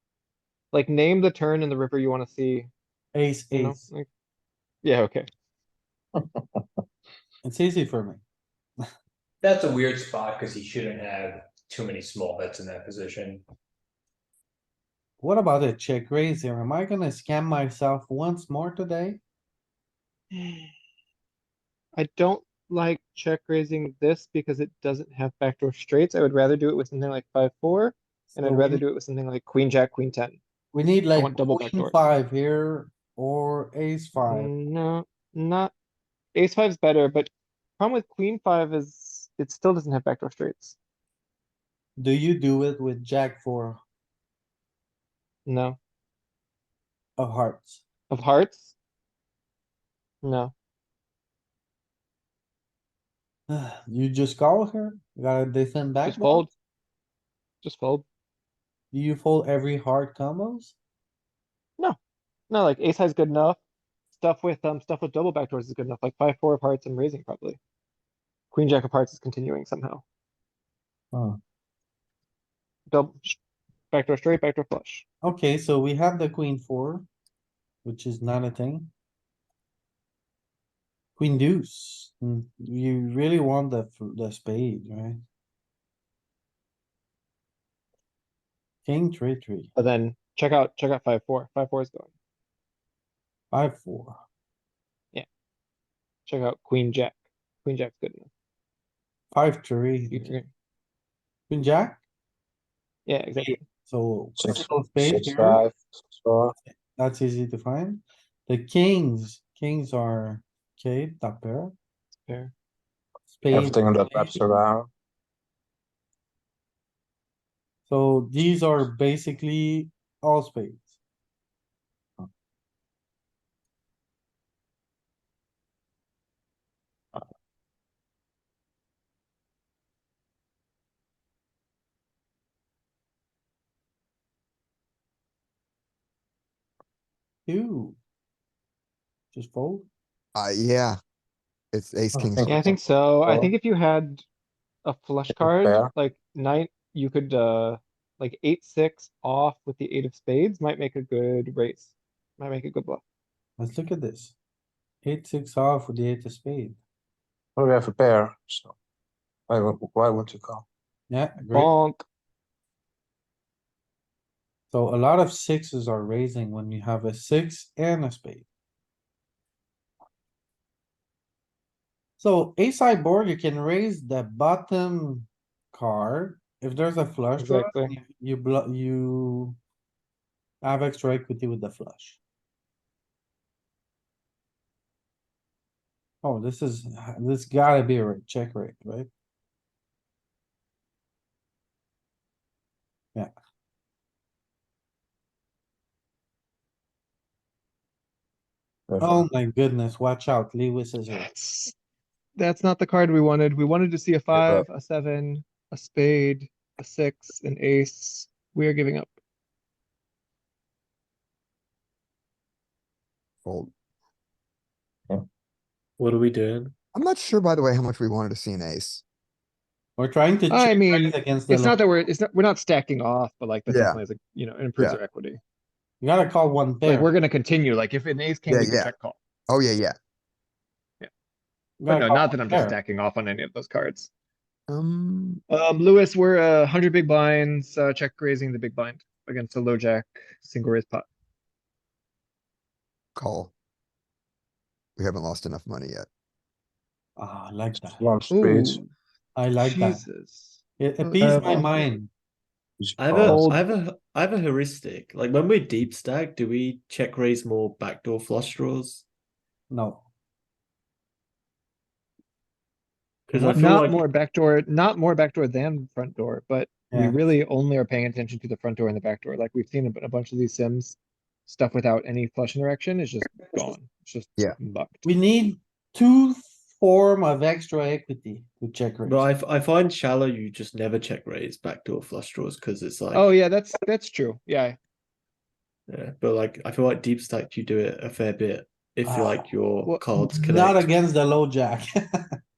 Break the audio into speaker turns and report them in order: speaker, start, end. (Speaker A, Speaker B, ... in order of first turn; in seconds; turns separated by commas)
Speaker A: 0.7-2.7, Speaker B: 3.1-3.8, Speaker A: 3.5-4.1, Speaker A: 4.8-5.3, Speaker B: 7.4-8.2, Speaker C: 9.4-13.4, Speaker B: 15.2-19.2, Speaker A: 20.3-20.7, Speaker A: 21.9-30.4, Speaker B: 28.3-28.8, Speaker B: 30.7-34.5, Speaker A: 31.1-32.0, Speaker A: 34.3-35.7, Speaker A: 36.3-40.8, Speaker B: 42.0-43.8, Speaker A: 45.5-45.8, Speaker B: 47.2-47.8, Speaker A: 48.1-48.7, Speaker A: 50.2-50.5, Speaker B: 53.5-56.5, Speaker A: 56.0-56.5, Speaker A: 57.6-58.0, Speaker B: 58.9-60.8, Speaker A: 62.5-63.6, Speaker A: 64.2-67.6, Speaker A: 68.5-70.0, Speaker A: 72.9-73.4, Speaker A: 73.9-75.0, Speaker B: 75.2-77.1, Speaker B: 77.8-78.9, Speaker B: 81.2-85.2, Speaker B: 88.8-89.7, Speaker A: 89.8-92.1, Speaker B: 93.5-94.2, Speaker A: 96.2-98.3, Speaker B: 99.3-100.3, Speaker A: 100.1-100.5, Speaker B: 101.5-102.0, Speaker A: 103.0-103.6, Speaker B: 103.3-105.6, Speaker D: 104.4-106.5, Speaker B: 106.6-111.7, Speaker A: 112.2-112.5, Speaker B: 113.3-114.6, Speaker D: 113.5-114.9, Speaker B: 117.9-120.9, Speaker B: 137.4-138.0, Speaker B: 139.3-139.9, Speaker E: 140.3-141.0, Speaker E: 141.7-142.7, Speaker D: 142.1-142.7, Speaker A: 142.4-144.2, Speaker D: 143.2-143.5, Speaker A: 144.8-153.0, Speaker D: 145.3-145.9, Speaker B: 153.6-154.3, Speaker B: 155.0-156.8, Speaker D: 157.6-158.7, Speaker D: 159.5-160.6, Speaker B: 161.1-161.7, Speaker A: 161.5-162.0, Speaker B: 164.7-168.4, Speaker B: 172.2-179.6, Speaker A: 177.4-177.9, Speaker B: 180.6-182.2, Speaker B: 186.2-189.1, Speaker D: 198.9-199.3, Speaker B: 199.0-201.3, Speaker A: 201.1-201.7, Speaker A: 202.4-209.2, Speaker E: 204.3-204.6, Speaker E: 213.4-213.7, Speaker F: 216.0-216.7, Speaker E: 216.9-219.0, Speaker B: 220.0-221.8, Speaker A: 220.5-225.4, Speaker E: 223.7-224.0, Speaker B: 226.0-227.1, Speaker A: 226.8-229.2, Speaker E: 228.5-228.9, Speaker E: 229.5-229.9, Speaker B: 231.8-232.8, Speaker A: 231.9-234.1, Speaker E: 234.7-235.4, Speaker A: 235.5-241.1, Speaker E: 243.2-243.5, Speaker E: 245.0-246.1, Speaker B: 247.2-248.0, Speaker D: 247.8-248.8, Speaker A: 248.3-248.9, Speaker B: 249.3-250.1, Speaker A: 249.6-251.9, Speaker B: 250.8-252.1, Speaker D: 252.8-253.6, Speaker F: 253.0-259.0, Speaker B: 259.7-260.1, Speaker F: 263.3-264.0, Speaker B: 263.3-263.8, Speaker A: 263.5-275.0, Speaker B: 266.9-267.2, Speaker B: 275.0-279.3, Speaker F: 279.1-283.3, Speaker A: 283.1-284.8, Speaker F: 285.9-290.9, Speaker B: 289.0-289.5, Speaker B: 290.2-292.3